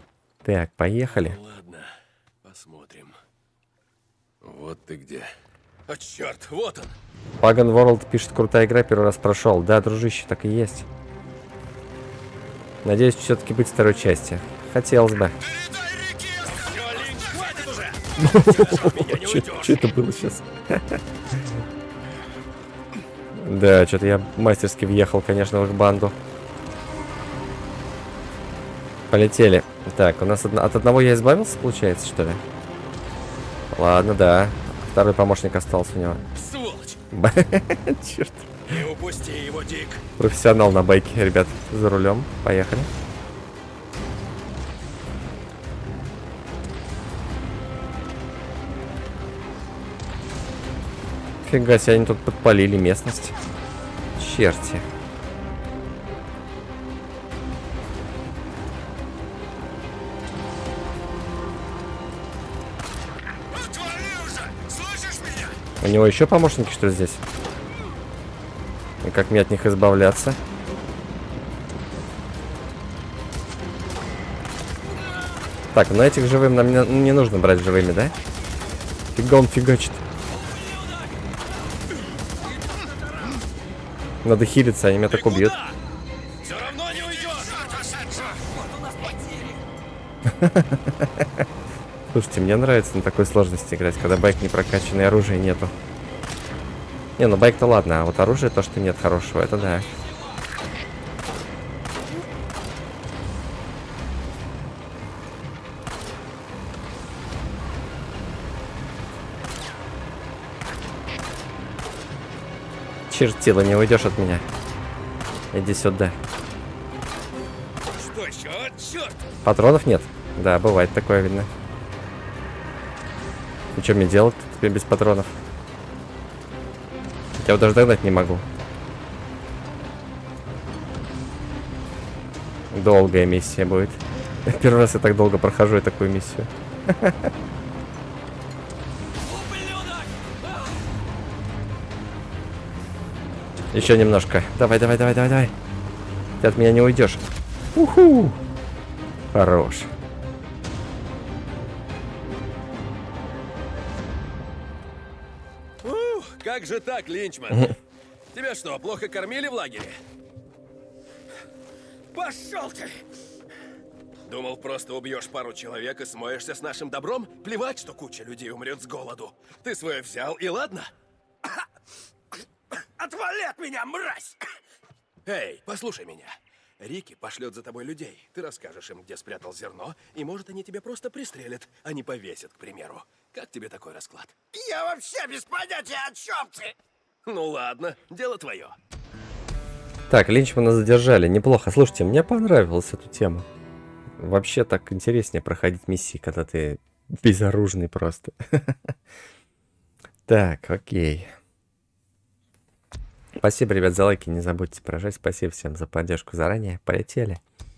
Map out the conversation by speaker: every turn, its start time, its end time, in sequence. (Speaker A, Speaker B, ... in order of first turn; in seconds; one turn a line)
Speaker A: 0.4-1.4
Speaker B: 1.0-3.2
Speaker B: 4.4-5.3
Speaker B: 5.9-7.0
Speaker A: 7.4-10.9
Speaker A: 12.8-15.4
Speaker B: 16.4-19.8
Speaker A: 18.2-21.0
Speaker A: 23.4-26.1
Speaker A: 29.1-32.4
Speaker A: 33.7-36.2
Speaker B: 36.3-37.0
Speaker A: 37.1-38.7
Speaker B: 38.7-40.0
Speaker A: 40.2-42.9
Speaker A: 51.4-53.4
Speaker A: 54.2-54.8
Speaker B: 63.6-65.5
Speaker A: 65.8-67.2
Speaker A: 69.0-70.4
Speaker A: 75.7-78.1
Speaker A: 79.1-80.0
Speaker A: 84.2-85.5
Speaker B: 85.1-85.8
Speaker B: 86.4-88.5
Speaker C: 87.7-88.0
Speaker C: 88.5-89.5
Speaker A: 90.3-91.4
Speaker A: 92.1-95.7
Speaker A: 97.2-99.9
Speaker A: 113.1-114.4
Speaker A: 115.5-116.1
Speaker B: 117.9-119.2
Speaker A: 119.4-121.5
Speaker A: 123.7-125.3
Speaker A: 127.4-128.4
Speaker A: 132.7-137.3
Speaker B: 139.3-140.3
Speaker A: 143.7-145.5
Speaker A: 146.4-147.2
Speaker A: 147.7-148.4
Speaker A: 149.3-149.9
Speaker B: 155.8-157.8
Speaker B: 158.3-160.0
Speaker B: 162.1-163.1
Speaker B: 164.2-170.9
Speaker B: 172.7-174.5
Speaker B: 175.2-185.7
Speaker C: 184.7-186.7
Speaker B: 187.2-188.8
Speaker A: 190.1-193.4
Speaker A: 194.2-198.9
Speaker A: 200.3-201.3
Speaker A: 203.4-207.4